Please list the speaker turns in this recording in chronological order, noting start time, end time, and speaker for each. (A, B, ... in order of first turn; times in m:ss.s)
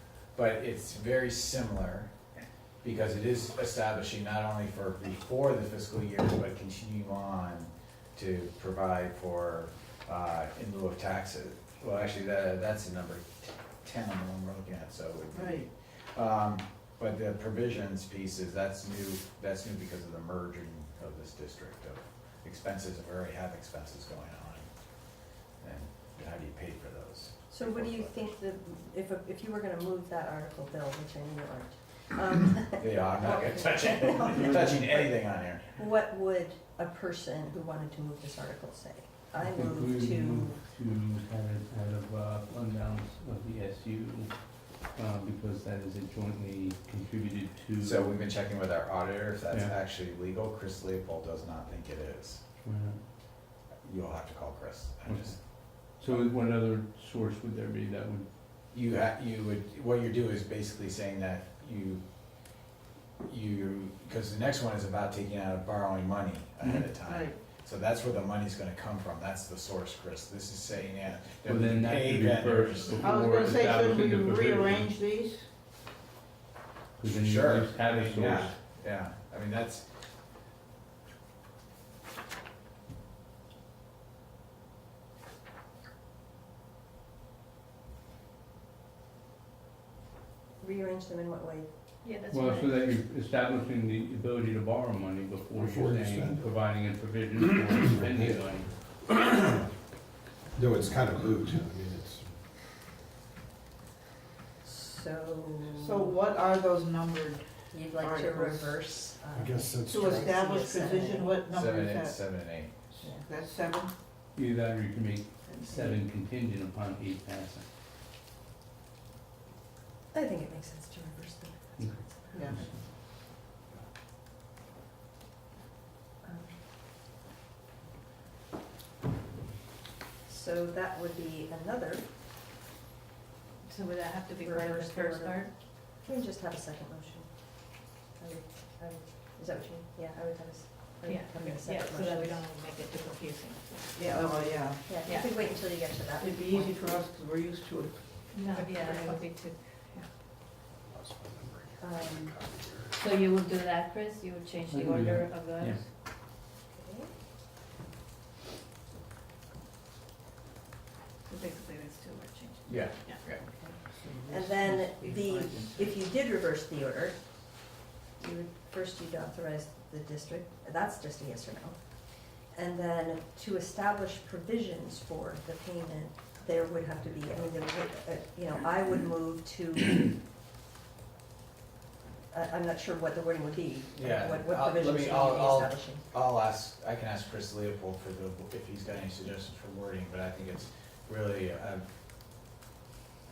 0:00.4-0:02.1 A
0:02.8-0:24.7 A
0:15.3-0:15.7 B
0:25.6-0:28.2 A
0:27.5-0:35.0 C
0:32.7-0:35.7 A
0:35.8-0:40.6 C
0:39.4-0:48.3 D
0:47.8-0:52.4 A
0:49.5-0:49.7 D
0:52.6-0:53.0 D
0:53.8-0:56.1 A
0:55.0-0:58.3 D
0:58.7-1:02.6 A
1:03.2-1:13.1 A
1:07.0-1:07.4 B
1:11.4-1:14.9 D
1:13.0-1:15.5 B
1:17.0-1:18.5 D
1:17.1-1:19.9 A
1:30.6-1:31.7 C
1:32.0-1:32.9 E
1:32.3-1:38.8 D
1:35.6-1:36.4 F
1:37.5-1:38.4 F
1:40.8-1:41.7 F
1:44.6-1:46.2 C
1:45.7-1:49.0 B
1:47.7-1:51.4 C
1:49.3-1:50.1 F
1:49.8-1:53.9 B
1:51.5-1:52.7 A
1:54.3-1:57.6 D
1:55.5-1:56.0 B
2:00.1-2:03.0 C
2:01.8-2:02.7 D
2:02.3-2:02.6 B
2:06.2-2:06.6 C
2:10.2-2:12.1 C
2:13.6-2:15.5 E
2:14.4-2:22.5 C
2:21.0-2:24.0 E
2:23.9-2:25.0 B
2:24.8-2:27.0 C
2:25.0-2:25.9 E
2:26.1-2:28.4 B
2:28.3-2:30.1 E
2:28.6-2:29.2 C
2:31.8-2:32.4 C
2:32.2-2:32.7 F
2:32.9-2:35.9 E
2:34.7-2:35.8 D
2:36.7-2:37.1 C
2:41.3-2:43.2 E
2:42.7-2:43.4 A
2:43.2-2:47.7 C
2:48.2-3:00.2 C
3:02.3-3:06.0 C
3:04.0-3:11.9 A